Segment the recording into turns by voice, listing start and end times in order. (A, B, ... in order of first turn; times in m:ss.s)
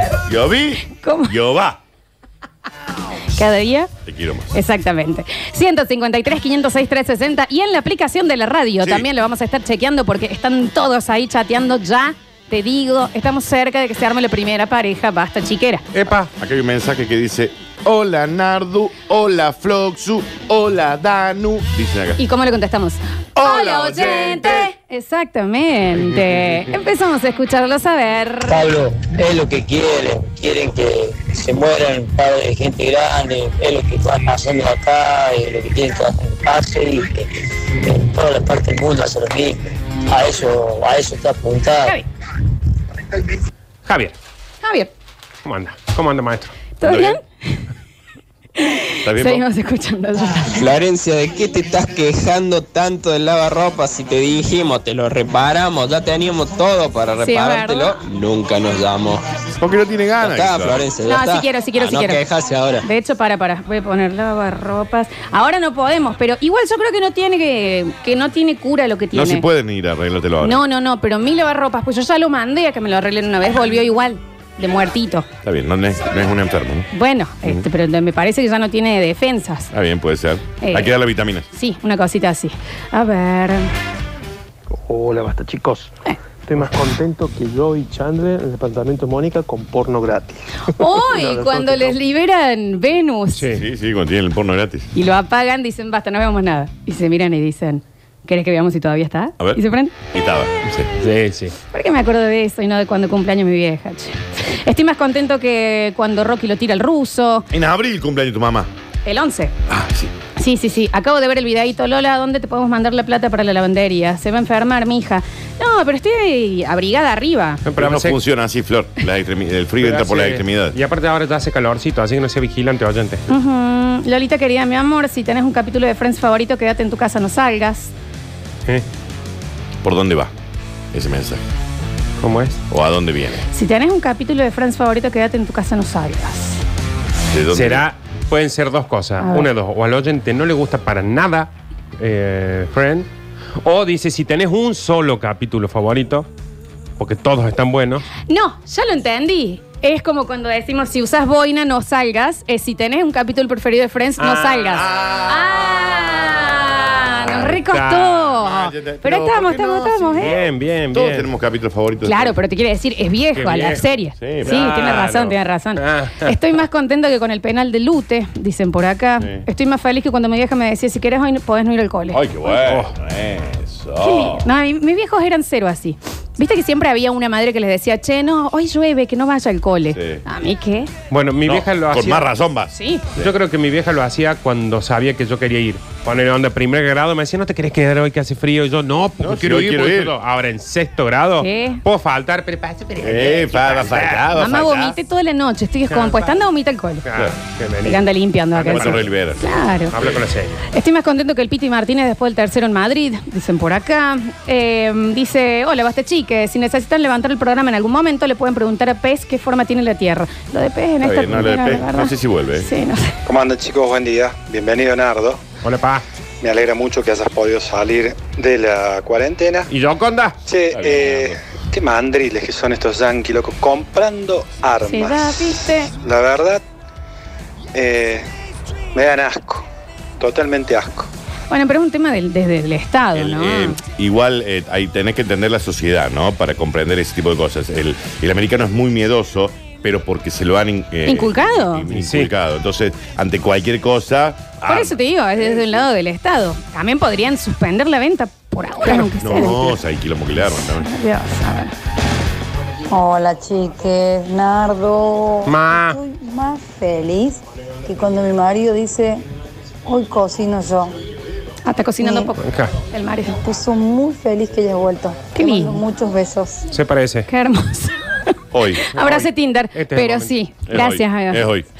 0:00.2-0:01.8 A
0:00.9-0:01.3 B
0:03.4-0:03.9 B
0:04.0-0:04.5 A
0:04.5-0:15.8 B
0:08.8-0:09.0 A
0:15.9-0:16.3 C
0:16.4-0:22.2 A
0:22.2-0:28.6 B
0:23.4-0:24.7 A
0:26.0-0:26.6 C
0:28.5-0:42.0 D
0:43.8-0:44.1 C
0:44.6-0:44.9 B
0:45.4-0:46.6 C
0:46.8-0:47.6 B
0:46.8-0:47.2 A
0:48.6-0:50.6 B
0:49.0-0:49.4 A
0:50.5-0:59.2 E
0:57.2-0:58.0 B
0:59.6-1:00.9 A
1:00.2-1:02.9 E
1:01.0-1:02.2 B
1:02.8-1:09.4 B
1:09.1-1:10.6 A
1:10.4-1:15.3 B
1:15.4-1:16.9 A
1:16.9-1:19.7 B
1:19.7-1:21.4 A
1:20.6-1:20.9 B
1:21.5-1:23.7 B
1:24.7-1:32.0 F
1:30.7-1:33.4 B
1:33.3-1:33.6 C
1:33.6-1:34.9 A
1:34.9-1:39.9 B
1:40.1-1:40.9 A
1:41.0-1:41.6 C
1:41.7-1:47.5 B
1:47.5-1:48.7 A
1:49.0-1:49.5 B
1:49.7-1:50.1 A
1:50.4-1:57.6 B
1:57.6-1:58.2 C
1:57.8-2:00.8 A
1:59.8-2:03.3 C
2:03.3-2:07.9 B
2:09.8-2:10.3 A
2:10.9-2:11.4 A
2:12.2-2:12.6 C
2:12.7-2:13.4 A
2:13.5-2:16.6 B
2:17.3-2:17.8 A
2:17.5-2:23.1 C
2:19.2-2:19.5 B
2:23.6-2:26.3 C
2:27.0-2:28.1 C
2:28.2-2:40.3 B
2:34.2-2:34.9 C
2:34.8-2:36.5 A
2:37.3-2:38.3 C
2:38.4-2:42.4 A
2:40.2-2:41.2 C
2:42.0-2:52.5 B
2:43.4-2:43.8 C
2:44.2-2:44.5 A
2:44.4-2:46.4 C
2:52.1-2:54.4 A
2:52.6-2:52.9 C
2:54.0-3:00.9 B
2:59.9-3:00.2 A
3:01.1-3:02.3 C
3:01.4-3:03.3 A
3:02.7-3:03.0 B
3:03.2-3:14.2 C
3:09.2-3:10.1 A
3:11.4-3:11.8 B
3:13.0-3:15.0 A
3:14.3-3:17.0 B
3:15.9-3:16.4 C
3:17.0-3:19.2 C
3:17.8-3:19.9 B
3:18.6-3:19.4 A
3:19.9-3:20.6 C
3:20.7-3:33.2 B
3:31.0-3:32.7 A
3:33.2-3:35.4 G
3:35.6-3:36.0 C
3:36.4-3:39.7 G
3:39.7-3:40.4 C
3:40.4-3:46.6 G
3:40.7-3:41.4 A
3:44.9-3:45.9 B
3:47.7-3:48.2 G
3:48.9-3:49.6 G
3:50.2-3:51.1 G
3:51.5-3:53.8 B
3:53.1-4:05.8 A
4:01.1-4:01.8 B
4:01.9-4:02.3 C
4:04.6-4:09.8 B
4:09.2-4:10.9 A
4:10.8-4:11.7 B
4:12.9-4:19.2 H
4:15.4-4:16.0 C
4:19.9-4:20.9 H
4:21.6-4:23.4 B
4:22.0-4:22.3 H
4:22.4-4:22.7 C
4:23.4-4:26.7 H
4:25.3-4:25.8 B
4:26.7-4:27.3 C
4:27.3-4:28.0 B
4:28.5-4:28.9 A
4:28.9-4:31.5 B
4:28.9-4:30.3 C
4:30.7-4:31.6 A